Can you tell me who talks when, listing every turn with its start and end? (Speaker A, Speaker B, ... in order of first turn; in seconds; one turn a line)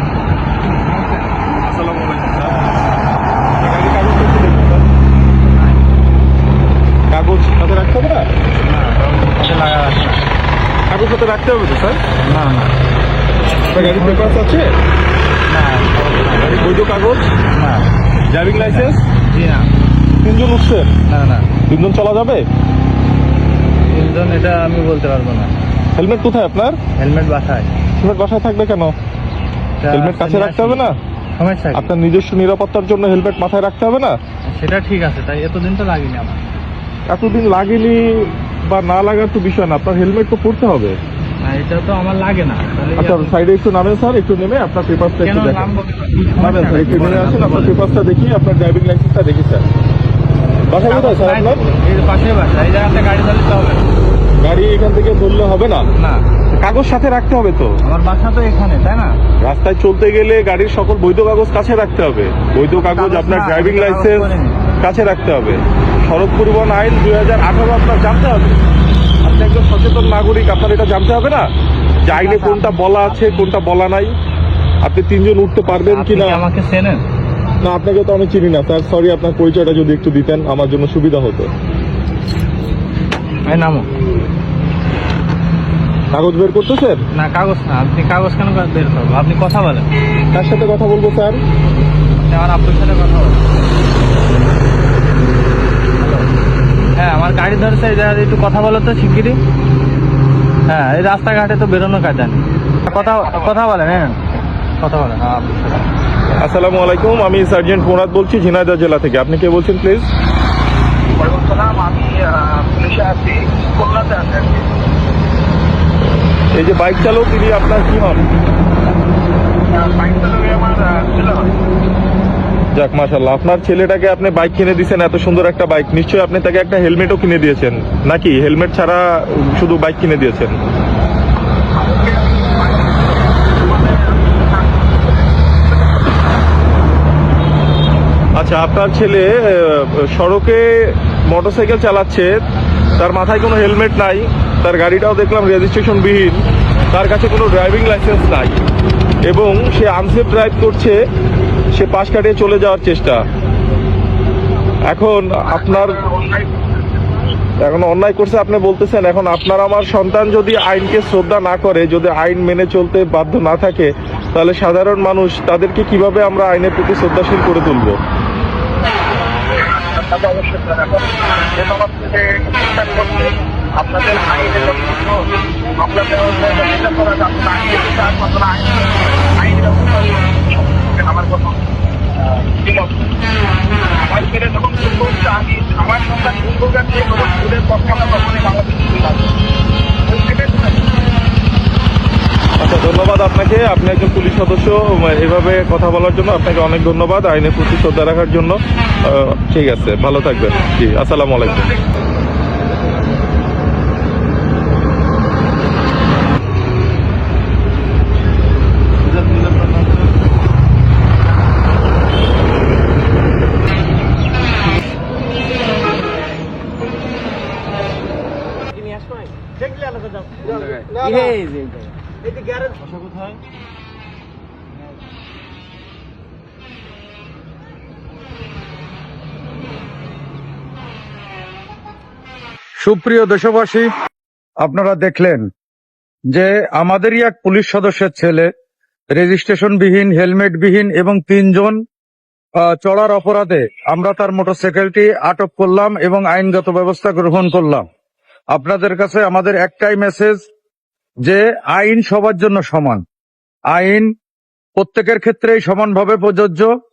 Speaker A: 0.7-1.3
Speaker B: 1.6-2.6
Speaker B: 3.6-4.8
Speaker A: 5.5-5.8
Speaker B: 7.1-8.3
Speaker A: 8.6-10.2
Speaker B: 10.9-12.0
Speaker A: 12.2-12.7
Speaker A: 13.6-14.5
Speaker B: 13.7-14.7
Speaker A: 15.5-16.8
Speaker B: 16.4-17.3
Speaker A: 17.5-17.9
Speaker B: 18.3-19.0
Speaker A: 18.6-19.7
Speaker B: 20.2-20.9
Speaker A: 21.1-21.5
Speaker B: 21.7-22.4
Speaker A: 23.9-25.5
Speaker B: 25.9-26.8
Speaker A: 26.9-27.7
Speaker B: 28.0-28.9
Speaker A: 29.8-30.8
Speaker B: 29.9-30.9
Speaker A: 31.4-31.9
Speaker B: 31.7-34.2
Speaker A: 34.5-36.4
Speaker B: 37.1-41.0
Speaker A: 41.4-43.3
Speaker B: 43.0-45.7
Speaker A: 45.2-47.8
Speaker B: 46.4-49.6
Speaker B: 50.7-51.6
Speaker A: 50.8-53.9
Speaker B: 54.4-55.9
Speaker A: 55.9-56.2
Speaker B: 56.6-57.7
Speaker A: 57.8-59.2
Speaker B: 59.4-64.2
Speaker A: 62.8-64.6
Speaker B: 64.8-68.6
Speaker B: 69.2-71.5
Speaker A: 72.0-73.5
Speaker B: 72.0-74.1
Speaker B: 74.8-76.4
Speaker A: 75.7-77.0
Speaker B: 77.6-81.5
Speaker A: 83.5-83.9
Speaker B: 86.1-87.0
Speaker A: 87.1-89.9
Speaker B: 90.3-91.4
Speaker A: 92.2-93.4
Speaker A: 96.0-96.2
Speaker A: 97.0-99.4
Speaker A: 100.7-104.2
Speaker C: 102.9-103.5
Speaker A: 104.8-105.9
Speaker B: 106.4-110.1
Speaker C: 111.1-114.7
Speaker B: 116.5-118.2
Speaker C: 119.7-121.5
Speaker B: 122.8-130.6
Speaker C: 131.8-136.2
Speaker B: 138.4-142.3
Speaker B: 143.0-148.6
Speaker B: 149.2-151.0
Speaker B: 151.8-153.2
Speaker B: 154.9-156.0
Speaker C: 155.5-156.7
Speaker B: 157.6-168.0
Speaker C: 169.2-181.7
Speaker C: 182.2-183.1
Speaker C: 184.0-189.3
Speaker C: 190.1-190.8
Speaker B: 192.6-201.7
Speaker A: 221.2-221.7
Speaker D: 232.8-233.9
Speaker D: 234.6-235.5
Speaker D: 236.3-238.5
Speaker D: 239.2-241.8
Speaker D: 242.6-247.8
Speaker D: 248.5-250.5
Speaker D: 251.2-253.0
Speaker D: 253.7-254.1
Speaker D: 254.8-256.7